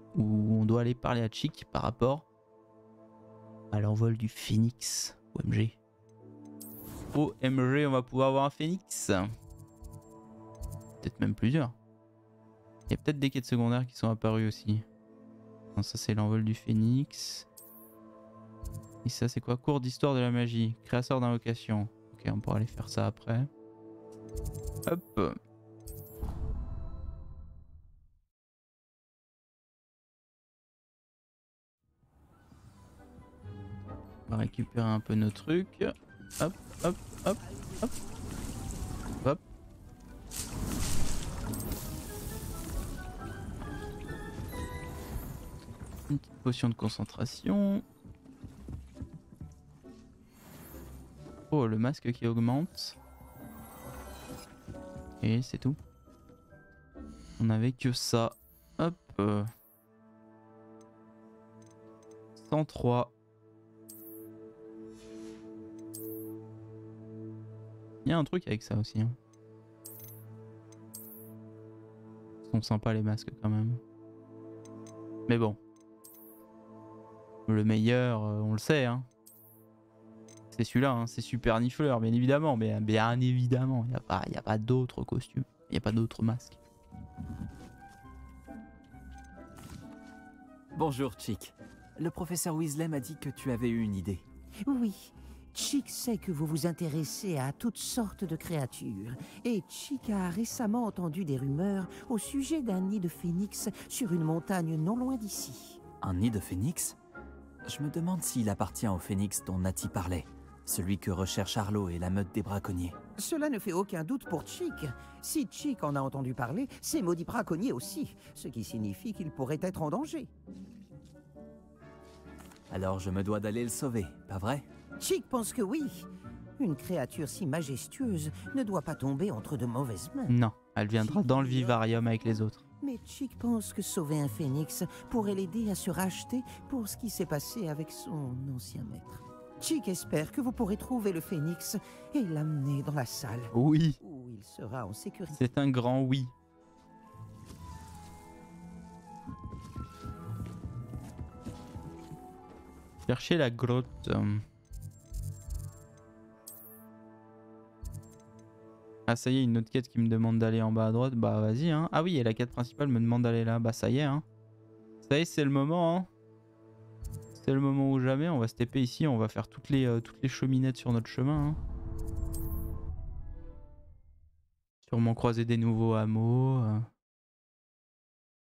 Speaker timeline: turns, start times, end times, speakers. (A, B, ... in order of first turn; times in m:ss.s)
0:00.2-0:02.3 A
0:03.7-0:05.8 A
0:07.1-0:09.3 A
0:11.0-0:11.8 A
0:12.9-0:14.9 A
0:15.7-0:17.5 A
0:19.0-0:23.5 A
0:24.9-0:25.4 A
0:34.3-0:37.9 A
0:46.1-0:47.8 A
0:51.5-0:53.0 A
0:55.2-0:55.8 A
0:57.4-0:59.5 A
1:02.4-1:03.1 A
1:08.0-1:09.2 A
1:12.5-1:13.8 A
1:15.3-1:15.6 A
1:17.5-1:19.1 A
1:20.5-1:26.6 A
1:30.8-1:34.2 B
1:34.6-1:45.8 C
1:46.0-1:47.0 B
1:47.7-1:53.0 B
1:53.2-2:00.3 C
2:02.7-2:04.7 B
2:05.0-2:10.4 C
2:10.3-2:12.6 A
2:11.0-2:11.8 C
2:12.8-2:25.4 C
2:23.5-2:24.0 A
2:25.4-2:26.3 A
2:33.1-2:34.4 A
2:39.1-2:44.2 A
2:45.0-2:46.1 A
2:47.4-2:51.6 A
2:54.8-2:56.9 A